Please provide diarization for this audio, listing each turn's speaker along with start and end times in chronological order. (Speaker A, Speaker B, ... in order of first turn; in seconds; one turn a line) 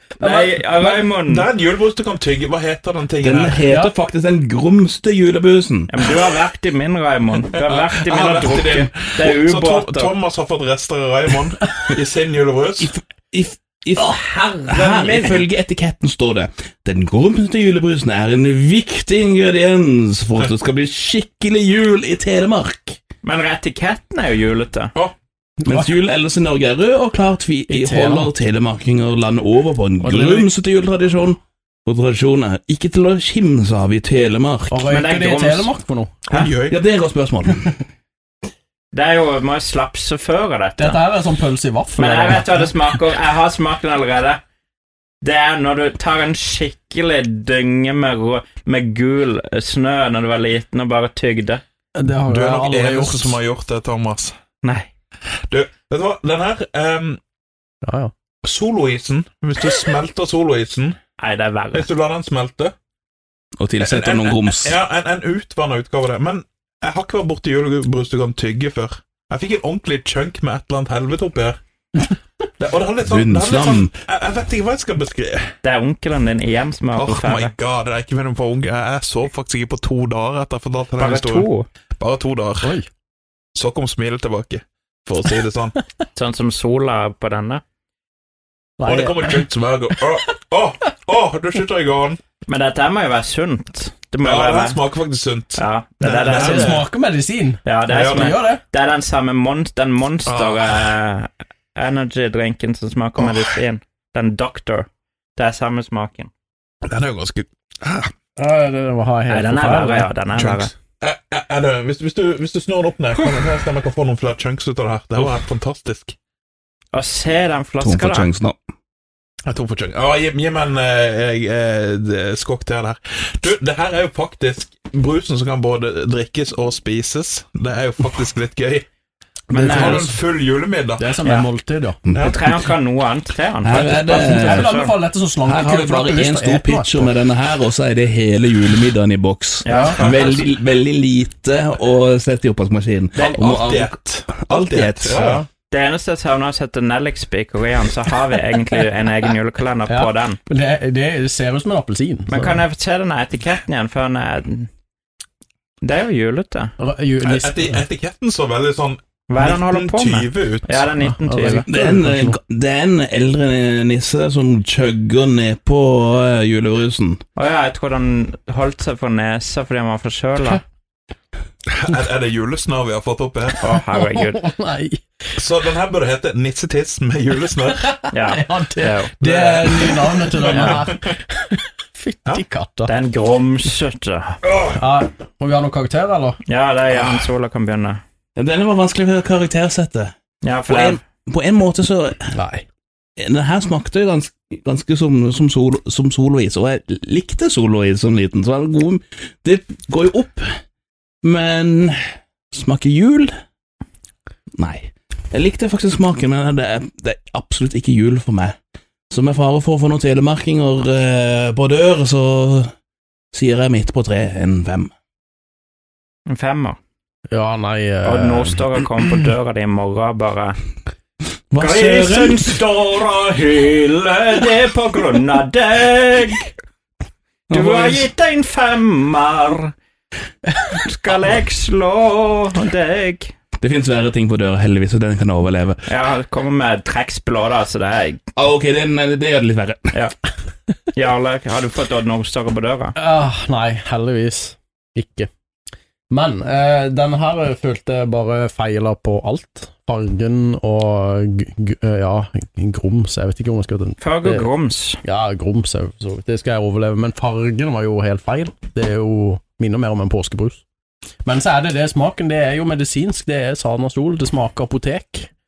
Speaker A: 0.2-1.1
Speaker B: 0.2-1.5
Speaker C: 1.2-3.6
Speaker D: 3.2-5.9
Speaker A: 3.7-3.9
Speaker B: 5.9-10.1
Speaker C: 7.5-12.9
Speaker D: 12.8-23.0
Speaker A: 14.0-14.6
Speaker B: 14.7-15.5
Speaker B: 23.2-24.9
Speaker A: 25.6-25.9
Speaker D: 25.6-34.8
Speaker A: 27.7-28.3
Speaker A: 30.0-30.5
Speaker A: 34.7-36.2
Speaker B: 34.9-35.7
Speaker C: 36.3-36.8
Speaker D: 36.7-37.8
Speaker B: 38.9-41.0
Speaker A: 40.8-42.8
Speaker B: 42.0-44.4
Speaker B: 45.2-51.6
Speaker A: 52.0-53.4
Speaker C: 52.3-54.4
Speaker B: 54.6-54.9
Speaker C: 55.5-57.2
Speaker A: 57.8-58.1
Speaker C: 58.4-61.0
Speaker B: 61.2-61.9
Speaker C: 61.7-62.7
Speaker D: 63.6-64.8
Speaker C: 63.8-71.6
Speaker C: 72.6-75.5
Speaker D: 73.0-73.9
Speaker B: 75.6-77.5
Speaker C: 77.0-81.5
Speaker B: 81.0-81.7
Speaker C: 82.0-82.7
Speaker A: 82.6-82.9
Speaker C: 83.5-85.8
Speaker B: 86.2-87.6
Speaker A: 88.8-89.5
Speaker C: 88.8-92.2
Speaker B: 92.5-94.8
Speaker C: 94.2-96.8
Speaker B: 95.5-96.8
Speaker A: 96.3-98.6
Speaker B: 97.6-106.3
Speaker C: 97.9-98.4
Speaker C: 100.3-100.9
Speaker C: 103.2-103.5
Speaker C: 106.8-108.1
Speaker A: 108.4-110.7
Speaker B: 109.3-110.7
Speaker C: 111.0-116.2
Speaker B: 116.9-118.3
Speaker D: 117.8-118.6
Speaker C: 119.5-128.9
Speaker B: 129.5-130.0
Speaker A: 129.5-130.2
Speaker C: 129.6-131.1
Speaker A: 131.0-132.0
Speaker B: 131.2-131.5
Speaker D: 132.1-132.4
Speaker B: 132.2-134.9
Speaker D: 133.6-134.7
Speaker A: 133.8-137.1
Speaker D: 135.4-145.3
Speaker B: 139.6-140.5
Speaker A: 139.7-140.0
Speaker C: 140.0-140.4
Speaker B: 143.2-143.5
Speaker C: 143.2-145.4
Speaker A: 145.1-145.4
Speaker B: 145.7-150.4
Speaker A: 149.9-152.7
Speaker B: 152.3-154.7
Speaker B: 155.8-156.7
Speaker A: 156.8-157.8
Speaker C: 157.2-160.9
Speaker B: 159.3-161.7
Speaker A: 161.1-162.4
Speaker D: 161.7-167.2
Speaker B: 167.3-170.6
Speaker C: 171.7-173.7
Speaker B: 173.6-174.4
Speaker A: 173.7-175.0
Speaker C: 175.4-178.0
Speaker A: 177.9-182.9
Speaker B: 178.1-179.2
Speaker C: 179.2-181.0
Speaker B: 180.4-180.8
Speaker B: 182.8-184.4
Speaker C: 184.4-184.8
Speaker A: 184.7-186.4
Speaker B: 186.5-188.0
Speaker D: 188.4-190.1
Speaker B: 190.4-191.0
Speaker D: 190.7-192.4
Speaker A: 192.3-192.7
Speaker D: 193.2-200.6
Speaker D: 201.2-202.0
Speaker D: 202.5-203.3
Speaker D: 204.6-208.6
Speaker D: 209.1-212.7
Speaker D: 213.3-214.9
Speaker B: 216.3-216.8
Speaker A: 217.3-218.6
Speaker B: 218.0-220.6
Speaker D: 221.5-222.6
Speaker B: 221.6-226.5
Speaker D: 227.5-228.1
Speaker B: 227.5-229.7
Speaker B: 230.7-233.3
Speaker D: 233.6-235.8
Speaker B: 235.9-238.2
Speaker D: 238.4-239.9
Speaker B: 240.9-243.0
Speaker A: 243.0-245.3
Speaker A: 246.1-254.5
Speaker B: 254.0-255.0
Speaker A: 255.0-260.6
Speaker A: 261.2-265.3